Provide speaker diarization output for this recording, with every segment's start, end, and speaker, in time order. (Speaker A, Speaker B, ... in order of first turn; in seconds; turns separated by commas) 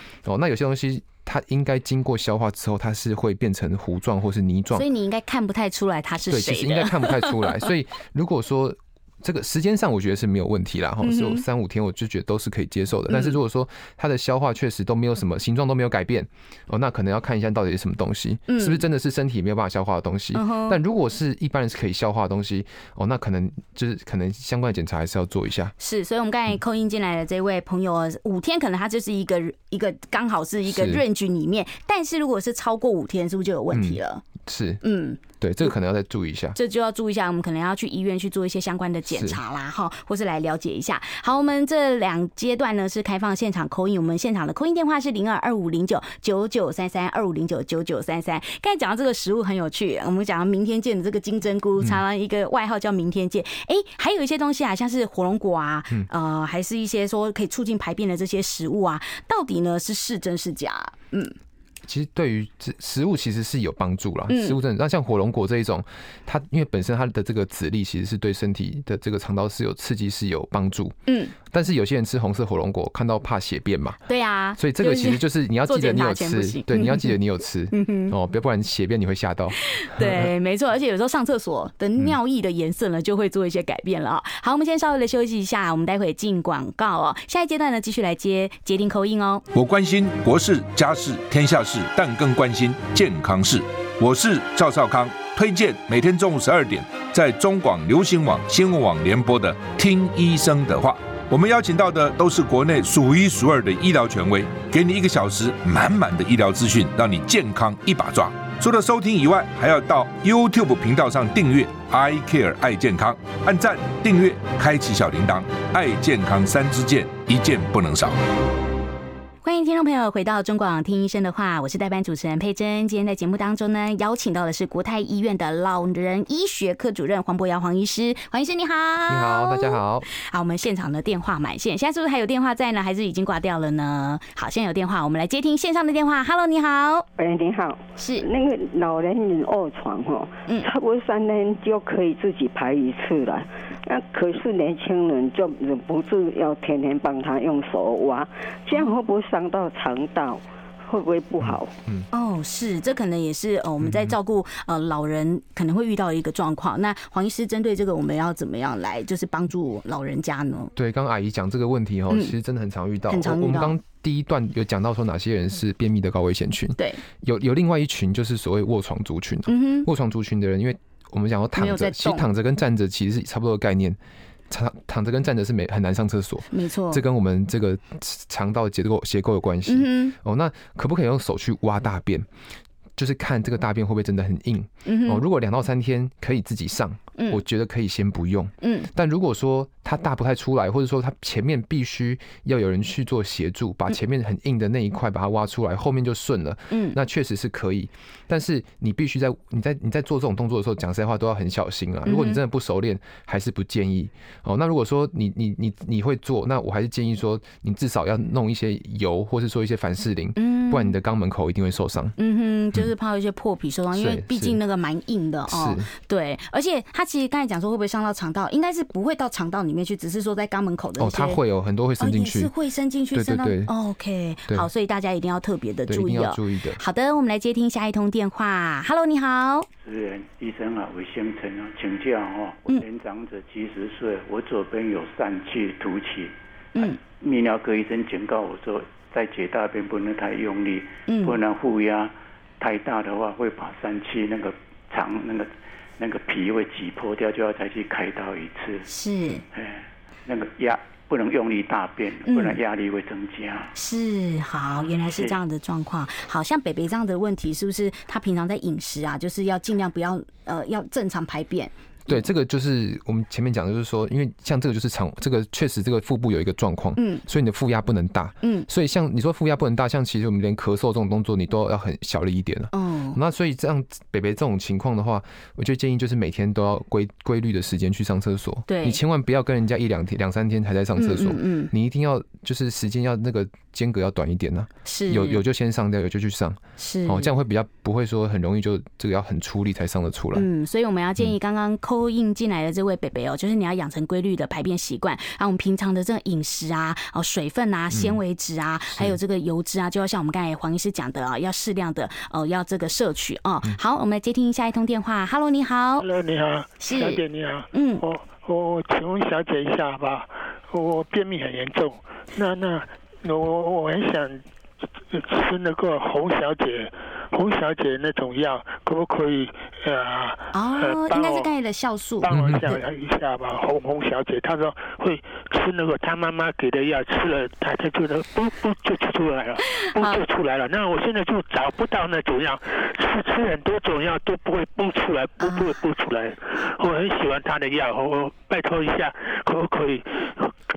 Speaker A: 0.2-4.9, Speaker B: 4.7-7.7, Speaker A: 6.2-25.7, Speaker B: 11.0-11.4, Speaker B: 13.1-13.3, Speaker B: 18.5-18.8, Speaker B: 20.3-20.8, Speaker B: 25.8-34.2, Speaker A: 30.7-31.0, Speaker A: 33.7-34.8, Speaker B: 34.8-35.7, Speaker A: 35.4-36.6, Speaker B: 36.5-61.4, Speaker A: 39.1-39.4, Speaker A: 61.8-74.0, Speaker B: 64.3-64.6, Speaker B: 71.1-71.3, Speaker B: 74.1-77.1, Speaker A: 74.6-80.3, Speaker B: 77.7-78.1, Speaker B: 79.6-89.4, Speaker C: 89.5-118.2, Speaker B: 119.4-137.1, Speaker A: 129.1-130.1, Speaker D: 137.2-151.7, Speaker B: 138.0-138.3, Speaker A: 151.4-152.1, Speaker B: 152.1-160.7, Speaker A: 153.8-154.2, Speaker A: 160.8-174.0, Speaker B: 163.1-163.7, Speaker B: 169.5-169.9, Speaker B: 171.6-172.2, Speaker A: 174.5-182.3, Speaker B: 176.5-177.0, Speaker B: 179.7-180.1, Speaker A: 183.0-212.2, Speaker B: 184.8-185.2, Speaker B: 188.6-188.9, Speaker B: 196.7-197.0, Speaker B: 202.1-202.4, Speaker B: 210.3-210.9, Speaker B: 212.2-221.4, Speaker A: 213.9-214.6, Speaker A: 215.5-215.9, Speaker A: 221.0-222.5, Speaker B: 222.0-229.7, Speaker A: 223.1-223.7, Speaker A: 225.9-226.8, Speaker E: 229.8-236.3, Speaker E: 237.0-248.9, Speaker B: 241.1-241.4, Speaker B: 248.9-249.4, Speaker E: 249.5-253.7, Speaker B: 252.3-252.6, Speaker B: 253.7-262.2, Speaker E: 255.0-255.3, Speaker A: 262.1-290.5, Speaker B: 267.0-267.2, Speaker B: 268.4-268.7, Speaker B: 272.7-273.2, Speaker B: 278.7-279.0, Speaker B: 281.0-281.7, Speaker B: 284.8-285.4, Speaker B: 286.8-287.3, Speaker B: 290.3-306.1, Speaker A: 297.9-298.2, Speaker F: 306.0-314.4, Speaker B: 306.8-308.0, Speaker F: 315.1-321.5, Speaker B: 320.5-322.7, Speaker F: 322.2-340.5, Speaker A: 322.3-322.7, Speaker B: 329.8-330.2, Speaker B: 335.4-335.8